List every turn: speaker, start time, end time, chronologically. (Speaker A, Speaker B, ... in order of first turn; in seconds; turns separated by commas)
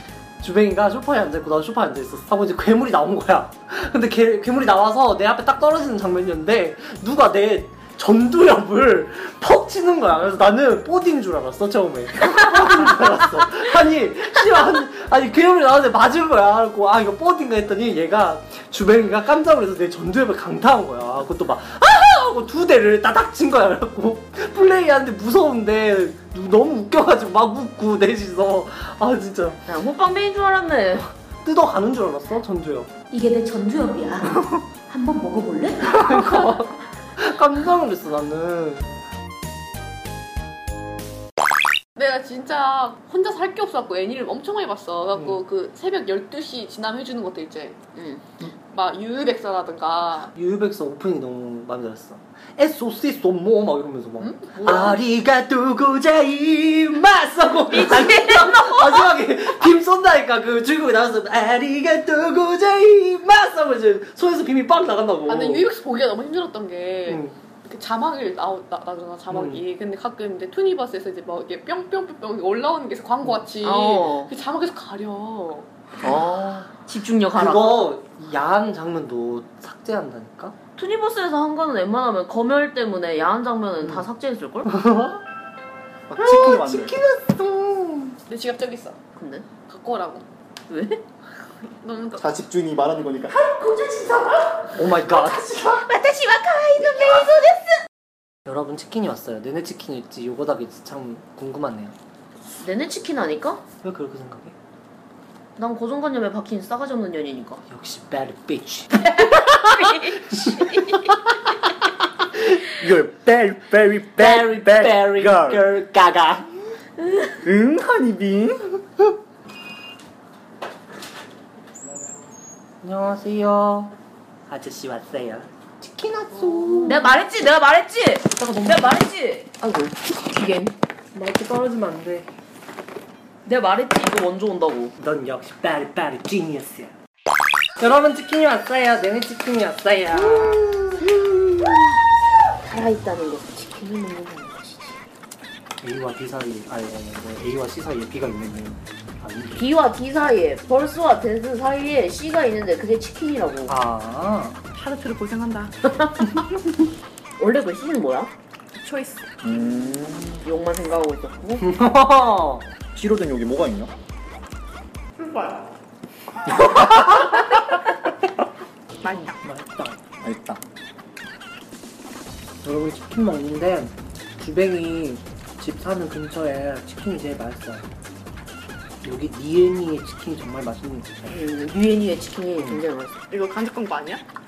Speaker A: 0.4-29.6, Speaker B: 29.6-31.1, Speaker A: 31.4-32.9, Speaker B: 33.1-36.6, Speaker A: 35.8-38.9, Speaker C: 42.0-47.8, Speaker A: 45.1-45.4, Speaker B: 47.9-48.4, Speaker C: 48.7-50.3, Speaker A: 50.3-65.7, Speaker C: 54.2-54.9, Speaker B: 54.5-55.0, Speaker B: 57.7-59.2, Speaker C: 65.2-75.7, Speaker A: 67.1-67.3, Speaker A: 69.3-69.6, Speaker B: 73.6-74.3, Speaker D: 76.0-76.7, Speaker B: 76.9-77.9, Speaker A: 77.3-80.5, Speaker B: 80.8-84.7, Speaker A: 84.7-85.2, Speaker D: 86.1-87.0, Speaker A: 86.2-88.2, Speaker C: 88.2-89.0, Speaker B: 89.1-89.5, Speaker C: 89.7-90.2, Speaker B: 90.7-91.0, Speaker C: 91.6-92.3, Speaker D: 92.2-93.4, Speaker B: 93.3-97.7, Speaker A: 94.8-95.7, Speaker A: 98.4-101.9, Speaker B: 102.5-103.6, Speaker A: 103.8-104.5, Speaker B: 105.6-107.6, Speaker A: 107.7-109.3, Speaker B: 109.1-111.0, Speaker A: 109.8-111.1, Speaker D: 112.7-115.6, Speaker A: 114.2-116.5, Speaker B: 117.1-117.4, Speaker D: 117.4-118.8, Speaker A: 122.8-123.9, Speaker A: 124.5-127.2, Speaker B: 126.9-130.8, Speaker A: 128.4-129.0, Speaker A: 131.1-132.3, Speaker B: 133.4-134.9, Speaker A: 135.0-136.9, Speaker A: 137.8-140.6, Speaker B: 140.1-145.0, Speaker A: 145.8-149.8, Speaker B: 149.6-153.7, Speaker A: 153.7-154.6, Speaker E: 154.8-155.7, Speaker B: 155.8-156.4, Speaker B: 157.4-158.3, Speaker E: 158.8-159.2, Speaker D: 159.4-160.4, Speaker B: 160.4-161.6, Speaker A: 161.6-162.7, Speaker D: 162.9-163.9, Speaker E: 165.2-165.7, Speaker A: 169.4-170.0, Speaker D: 170.2-170.6, Speaker A: 172.6-177.9, Speaker A: 179.0-181.3, Speaker B: 181.3-183.2, Speaker A: 182.6-182.8, Speaker E: 183.3-184.2